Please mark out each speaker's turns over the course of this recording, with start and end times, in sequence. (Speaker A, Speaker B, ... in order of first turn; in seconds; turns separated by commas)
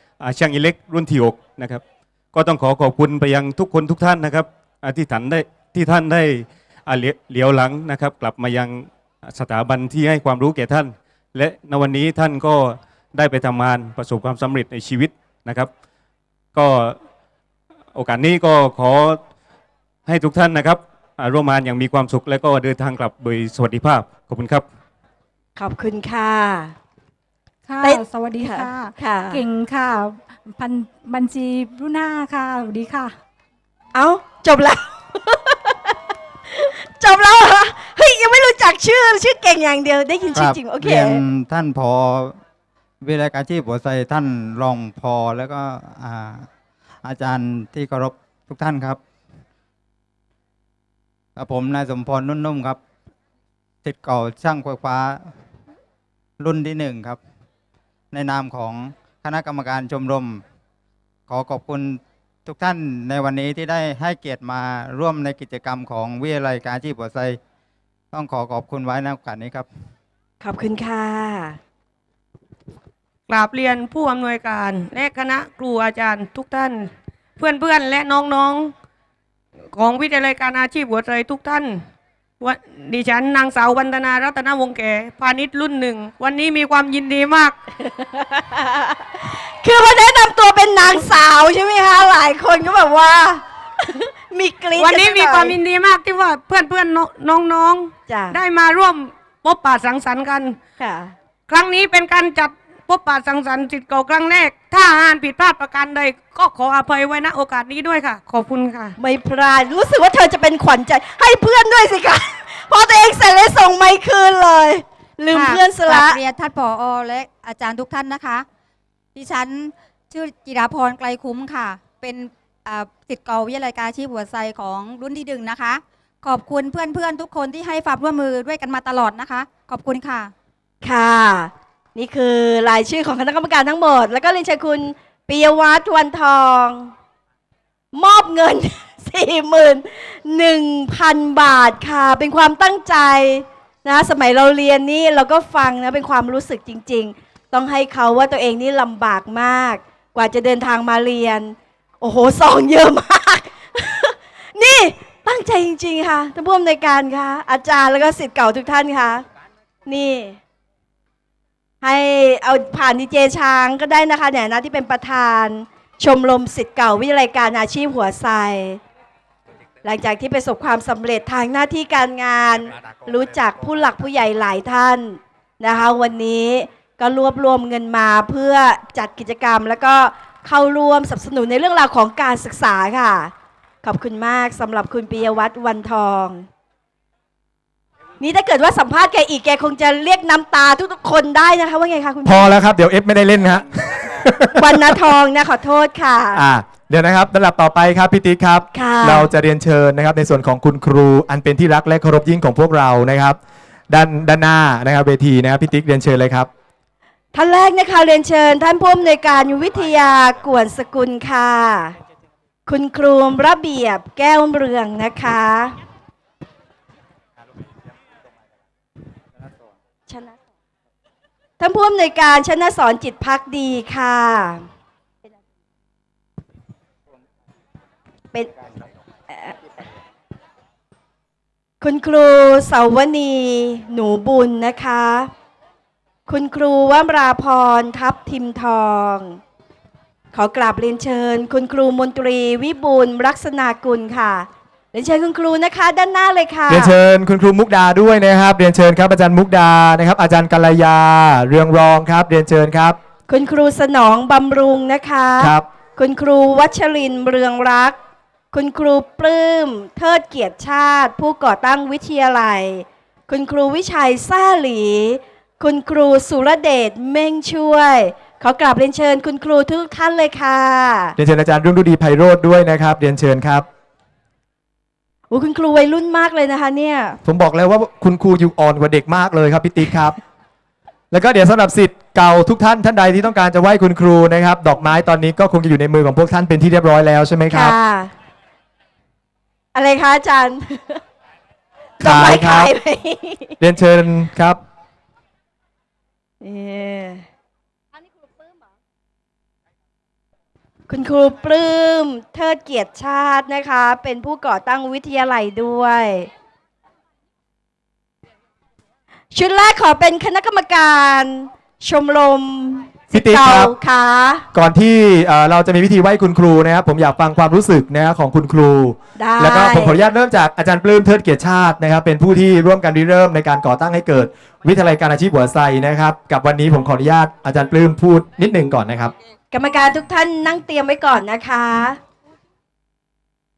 Speaker A: 0.2-15.7, Speaker A: 16.5-17.0, Speaker A: 17.9-19.2, Speaker A: 20.1-24.7, Speaker B: 25.6-26.7, Speaker C: 27.7-33.1, Speaker B: 27.8-29.4, Speaker B: 33.9-36.0, Speaker B: 36.5-41.2, Speaker D: 40.3-42.4, Speaker D: 43.0-46.5, Speaker D: 47.0-49.0, Speaker D: 51.4-52.8, Speaker D: 53.8-55.3, Speaker D: 56.4-57.2, Speaker D: 58.1-60.4, Speaker D: 61.3-67.4, Speaker D: 68.1-69.7, Speaker B: 70.4-71.6, Speaker E: 73.3-78.7, Speaker E: 79.7-81.8, Speaker E: 82.4-87.6, Speaker B: 88.2-89.0, Speaker B: 89.6-95.6, Speaker E: 94.8-100.6, Speaker B: 98.1-98.4, Speaker B: 100.8-101.2, Speaker E: 101.5-109.0, Speaker B: 109.0-116.2, Speaker F: 115.3-118.5, Speaker F: 119.2-130.3, Speaker B: 130.8-136.9, Speaker B: 137.9-159.3, Speaker B: 159.9-160.4, Speaker B: 161.8-168.8, Speaker B: 169.8-186.5, Speaker B: 188.2-192.5, Speaker G: 192.2-195.0, Speaker B: 194.6-196.4, Speaker G: 196.3-203.4, Speaker B: 198.7-199.3, Speaker G: 203.9-206.5, Speaker B: 207.3-212.0, Speaker B: 212.7-215.8, Speaker B: 220.1-220.4, Speaker B: 221.6-224.7, Speaker B: 228.3-228.7, Speaker B: 229.3-229.6, Speaker B: 231.8-235.3, Speaker B: 236.3-239.4, Speaker B: 240.3-246.9, Speaker G: 246.7-253.0, Speaker B: 253.3-258.0, Speaker G: 255.4-255.7, Speaker B: 258.5-271.2, Speaker G: 271.2-273.7, Speaker B: 275.3-277.2, Speaker G: 277.2-280.2, Speaker G: 281.1-287.8, Speaker B: 287.5-288.1, Speaker B: 289.8-291.0, Speaker B: 292.0-293.6, Speaker G: 292.0-292.8, Speaker G: 293.6-294.6, Speaker B: 296.4-297.2, Speaker B: 300.9-306.3, Speaker B: 309.3-314.5, Speaker G: 313.1-313.7, Speaker G: 314.5-329.1, Speaker B: 319.2-320.0, Speaker B: 329.5-332.0